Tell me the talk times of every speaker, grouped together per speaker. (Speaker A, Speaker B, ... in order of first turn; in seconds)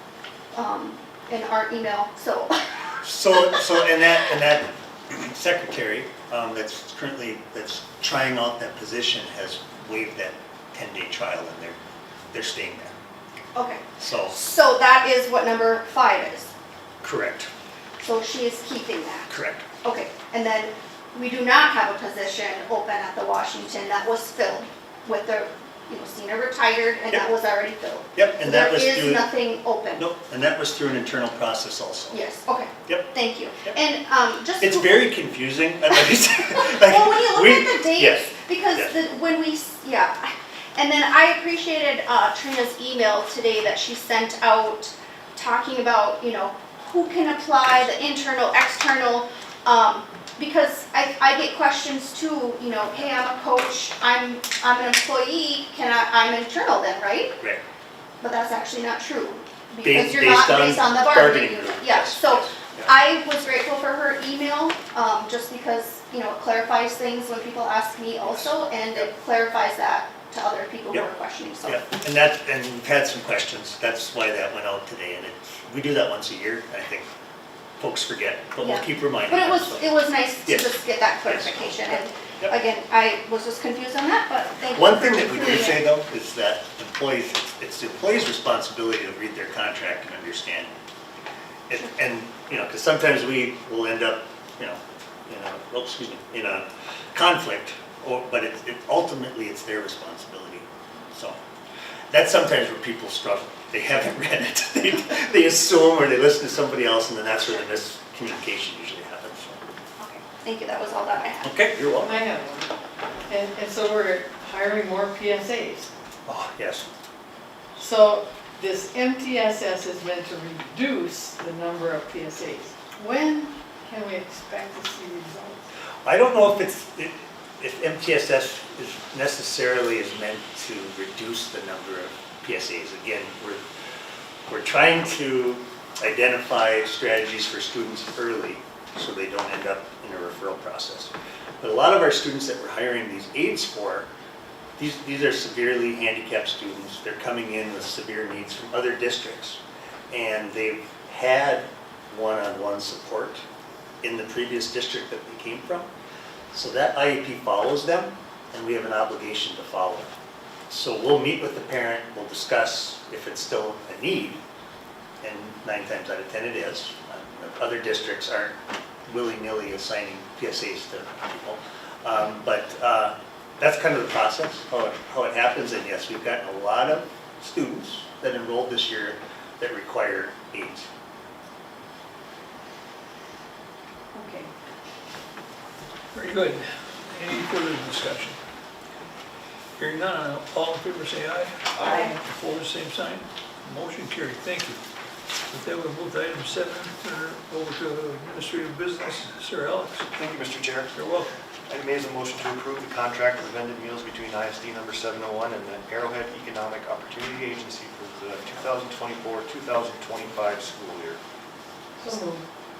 Speaker A: 0.5-2.6, 13.5-16.5, 18.0-30.0, 32.1-35.0, 36.7-57.4, 58.2-71.9, 78.6-85.9, 110.0-111.5, 184.2-184.5, 191.8-192.1
Speaker B: 3.0-11.8, 12.3-12.9, 14.0-14.3, 17.0-17.5, 19.3-19.6, 28.1-29.3, 30.0-32.2, 34.6-38.9, 59.8-62.9, 68.2-69.1, 71.6-77.1, 77.8-79.8, 80.5-80.7, 81.2-82.5, 84.8-90.8, 91.7-101.4, 102.1-109.6, 111.4-112.1, 116.3-116.9, 126.0-133.7, 134.5-144.1, 144.8-153.4, 154.0-155.9, 156.5-160.1, 160.7-164.4, 165.2-180.9
Speaker C: 111.9-112.7, 113.3-115.9, 117.8-125.7, 191.9-192.2, 212.0-212.4
Speaker D: 186.1-188.4, 189.8-194.8, 195.5-200.1, 200.9-201.3
Speaker E: 200.2-200.9, 201.7-211.2